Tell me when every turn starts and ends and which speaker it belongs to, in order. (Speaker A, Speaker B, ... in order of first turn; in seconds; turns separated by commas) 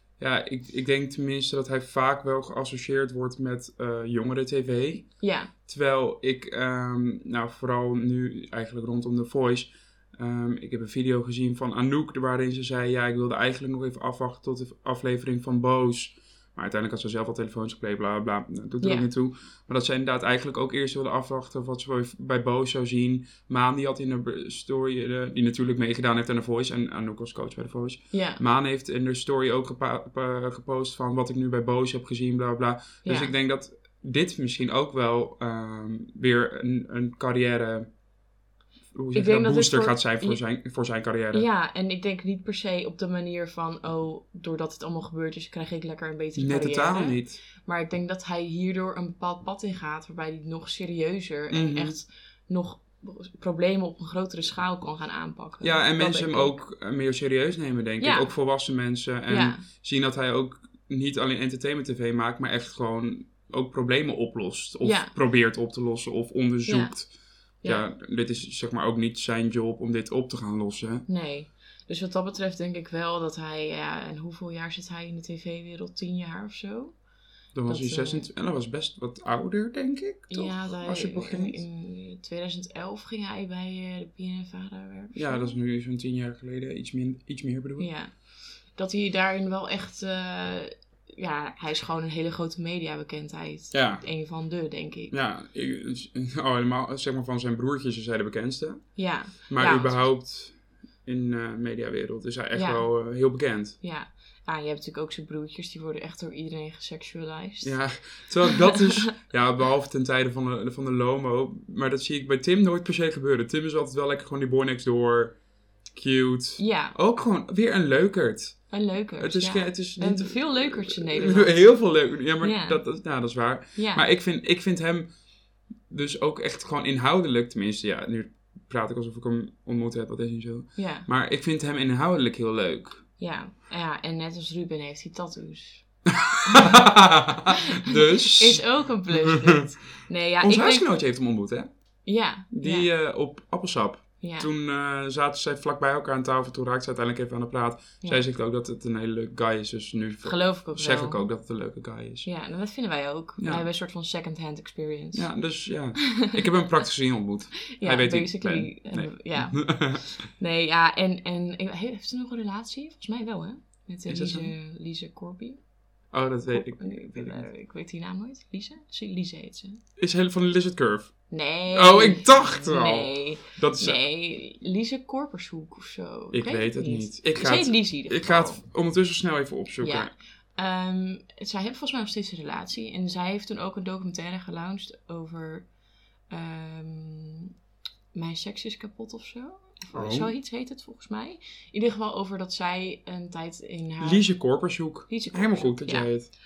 Speaker A: 0.2-5.1, Speaker B: 5.2-5.5, Speaker A: 5.7-37.9, Speaker B: 18.8-19.1, Speaker B: 28.1-28.4, Speaker B: 33.0-33.3, Speaker A: 38.9-41.5, Speaker B: 39.1-40.4, Speaker B: 41.3-56.6, Speaker A: 46.4-47.4, Speaker A: 51.5-52.0, Speaker A: 55.6-67.1, Speaker B: 58.0-58.3, Speaker B: 59.3-59.6, Speaker B: 64.8-65.1, Speaker B: 66.7-66.9, Speaker A: 67.6-71.0, Speaker B: 71.1-76.9, Speaker A: 77.5-81.6, Speaker B: 77.7-78.3, Speaker B: 80.3-85.5, Speaker A: 85.1-87.9, Speaker B: 87.8-88.1, Speaker B: 88.8-95.1, Speaker A: 93.7-94.0, Speaker A: 95.1-98.9, Speaker B: 99.0-100.0, Speaker A: 99.5-103.8, Speaker B: 102.5-102.9, Speaker B: 103.8-107.8, Speaker A: 107.6-115.4, Speaker B: 108.4-109.1, Speaker A: 115.9-118.7, Speaker B: 116.6-116.9, Speaker B: 118.7-121.7, Speaker A: 119.2-125.1, Speaker B: 122.4-122.8, Speaker B: 123.8-124.0, Speaker A: 125.9-133.0, Speaker B: 130.8-131.1, Speaker B: 133.2-135.8, Speaker A: 136.1-139.6, Speaker B: 136.4-136.8, Speaker B: 137.5-140.9, Speaker A: 140.4-141.7, Speaker B: 142.0-142.9, Speaker A: 142.5-152.3, Speaker B: 144.2-144.5, Speaker B: 150.2-151.2, Speaker B: 152.2-155.3, Speaker A: 153.4-153.6, Speaker A: 155.1-160.1, Speaker B: 156.0-156.4, Speaker B: 157.7-165.6, Speaker A: 164.1-164.5, Speaker A: 166.1-167.5, Speaker B: 166.5-169.8, Speaker A: 170.0-171.1, Speaker B: 171.3-178.6, Speaker A: 171.7-174.0, Speaker A: 176.3-180.1, Speaker B: 179.8-185.7, Speaker B: 186.3-187.5, Speaker B: 188.1-194.3, Speaker A: 189.9-190.3, Speaker A: 194.0-196.3, Speaker B: 195.1-196.1